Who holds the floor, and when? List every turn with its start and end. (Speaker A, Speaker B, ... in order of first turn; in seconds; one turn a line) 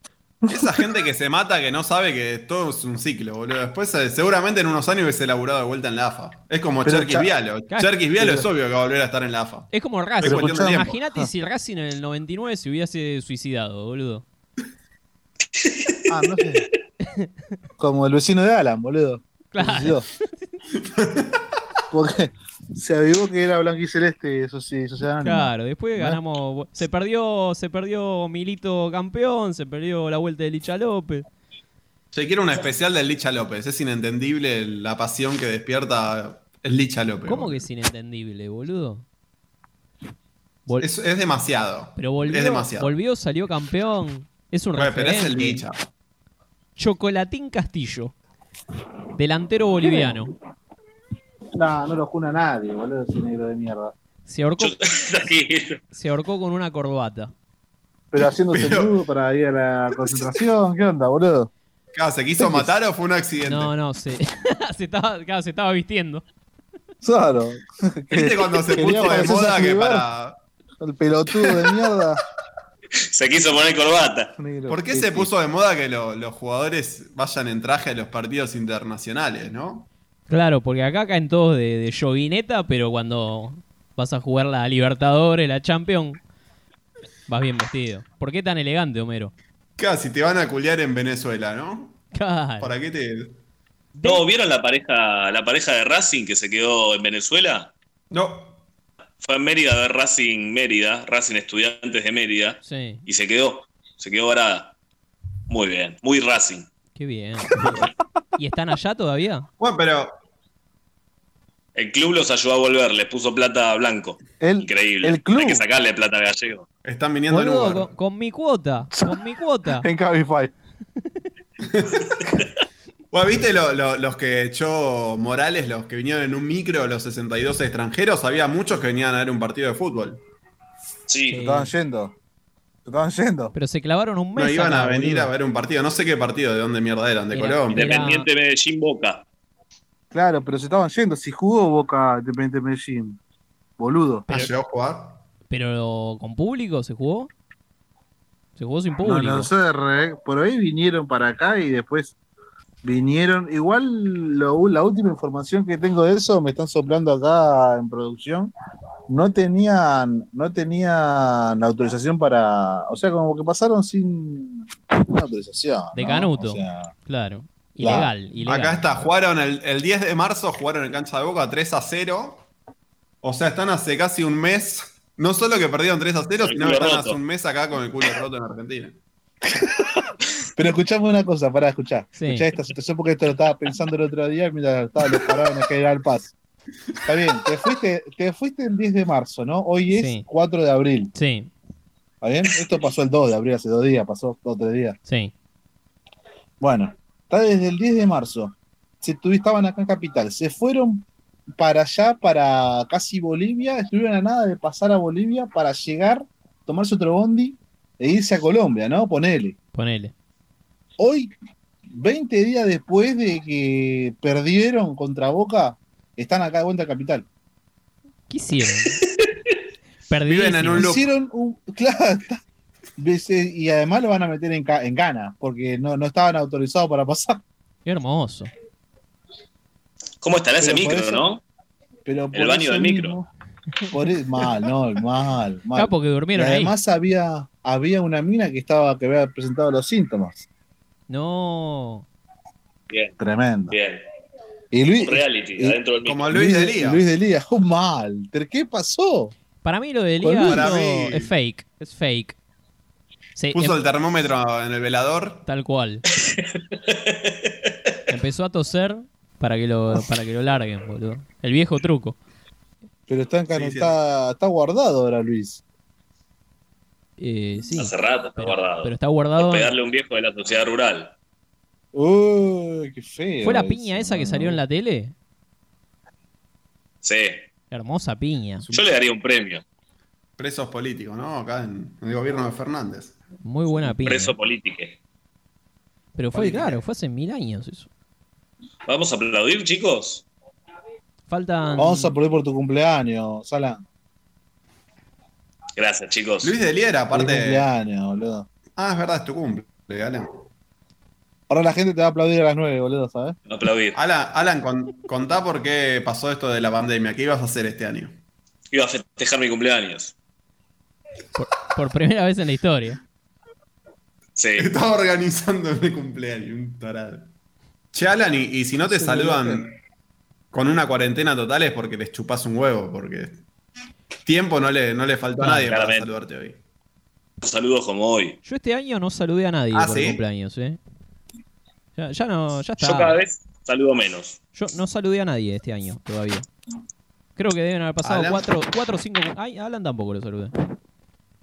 Speaker A: 0.4-0.8
Speaker B: 0.5-10.9
Speaker A: 6.8-7.3
Speaker A: 8.2-8.5
Speaker C: 9.7-14.2
Speaker A: 10.2-11.3
Speaker D: 15.6-16.0
Speaker A: 16.1-16.7
Speaker A: 17.8-20.1
Speaker C: 19.5-20.0
Speaker B: 20.8-21.4
Speaker A: 21.9-26.2
Speaker C: 25.2-31.2
Speaker B: 32.1-37.6
Speaker C: 37.2-39.0
Speaker B: 40.8-42.9
Speaker C: 42.0-45.6
Speaker B: 44.8-45.8
Speaker C: 46.8-48.1
Speaker C: 49.1-50.3
Speaker A: 49.8-50.2
Speaker A: 51.5-53.9
Speaker C: 54.2-54.7
Speaker D: 54.6-55.8
Speaker C: 55.9-57.3
Speaker A: 58.1-61.5
Speaker B: 58.5-59.0
Speaker B: 61.9-63.7
Speaker A: 62.4-62.7
Speaker C: 63.5-66.2
Speaker A: 67.0-70.1
Speaker B: 68.1-70.4
Speaker A: 70.8-72.2
Speaker D: 73.1-74.3
Speaker A: 74.4-75.3
Speaker B: 74.7-79.9
Speaker C: 80.3-86.2
Speaker C: 87.3-89.3
Speaker B: 89.8-92.0
Speaker C: 92.1-92.7
Speaker B: 92.6-93.4
Speaker C: 93.9-94.2
Speaker D: 94.0-97.7
Speaker B: 98.1-98.6
Speaker D: 99.2-104.7
Speaker C: 102.6-103.0
Speaker D: 105.5-106.7
Speaker C: 107.0-109.5
Speaker B: 109.6-110.2
Speaker D: 111.7-116.6
Speaker A: 114.4-115.7
Speaker B: 116.8-117.9
Speaker C: 117.3-119.9
Speaker A: 119.7-120.5
Speaker B: 121.6-122.3
Speaker B: 123.1-130.2
Speaker D: 131.1-131.4
Speaker C: 131.3-131.7
Speaker A: 131.4-132.2
Speaker A: 132.8-133.5
Speaker C: 133.5-135.3
Speaker B: 134.3-138.0
Speaker C: 137.3-138.3
Speaker D: 137.7-139.2
Speaker A: 140.1-143.2
Speaker A: 143.8-144.3
Speaker B: 144.3-145.2
Speaker C: 145.5-147.3
Speaker C: 148.6-149.5
Speaker A: 149.0-152.1
Speaker A: 152.8-158.5
Speaker A: 159.1-166.9
Speaker C: 165.9-168.8
Speaker A: 167.8-168.1
Speaker B: 168.4-172.4
Speaker B: 173.2-179.0
Speaker D: 176.4-177.2
Speaker A: 179.5-180.0
Speaker A: 180.6-186.3
Speaker C: 182.2-182.4
Speaker A: 187.1-191.1
Speaker C: 189.9-190.3
Speaker C: 191.1-191.5
Speaker A: 192.2-195.0
Speaker C: 195.1-195.3
Speaker A: 196.6-201.1
Speaker A: 201.6-209.6
Speaker C: 209.7-210.1
Speaker A: 211.0-211.3
Speaker A: 211.9-217.2
Speaker C: 218.3-219.0
Speaker C: 220.1-220.9
Speaker B: 220.2-221.1
Speaker A: 220.7-222.4
Speaker A: 223.0-227.4
Speaker C: 227.8-228.5
Speaker D: 230.2-231.4
Speaker A: 230.6-231.2
Speaker A: 232.0-233.3
Speaker D: 232.3-233.2
Speaker A: 233.9-240.4
Speaker C: 235.7-236.7
Speaker C: 241.1-242.1
Speaker D: 242.9-243.2
Speaker A: 243.2-243.8
Speaker D: 243.7-244.0
Speaker A: 244.7-245.8
Speaker D: 245.0-246.3
Speaker B: 246.0-247.0
Speaker A: 246.3-249.3
Speaker C: 249.6-252.3
Speaker A: 250.2-250.7
Speaker B: 250.4-251.3
Speaker C: 253.3-253.8
Speaker B: 253.5-255.4
Speaker C: 255.4-256.0
Speaker D: 256.2-257.5
Speaker C: 258.1-262.2
Speaker A: 263.1-265.6
Speaker B: 263.5-263.9
Speaker C: 267.2-269.8
Speaker D: 267.8-271.1
Speaker A: 271.9-274.6
Speaker C: 273.4-275.1
Speaker D: 277.0-277.4
Speaker C: 277.7-278.7
Speaker D: 278.7-279.6
Speaker B: 280.4-283.1
Speaker C: 283.4-284.4
Speaker D: 284.0-285.0
Speaker C: 286.1-287.9
Speaker B: 286.3-286.8
Speaker D: 288.9-290.2
Speaker C: 291.3-292.1
Speaker A: 291.8-293.8
Speaker D: 295.8-296.5
Speaker B: 296.4-297.7
Speaker A: 297.1-298.5
Speaker B: 298.8-300.4
Speaker A: 301.5-303.4
Speaker D: 303.5-304.0
Speaker B: 303.9-308.1
Speaker D: 308.7-310.1
Speaker C: 311.3-313.0
Speaker D: 314.4-314.7
Speaker B: 314.6-317.3
Speaker B: 317.9-319.7
Speaker A: 318.8-319.6
Speaker B: 320.5-323.4
Speaker B: 324.2-326.6
Speaker C: 325.4-325.6
Speaker D: 325.6-326.1
Speaker D: 327.4-328.4
Speaker C: 328.4-330.8
Speaker B: 329.7-330.2
Speaker C: 331.9-333.1
Speaker D: 332.8-334.4
Speaker C: 334.5-336.5
Speaker C: 337.4-340.5
Speaker B: 338.0-338.5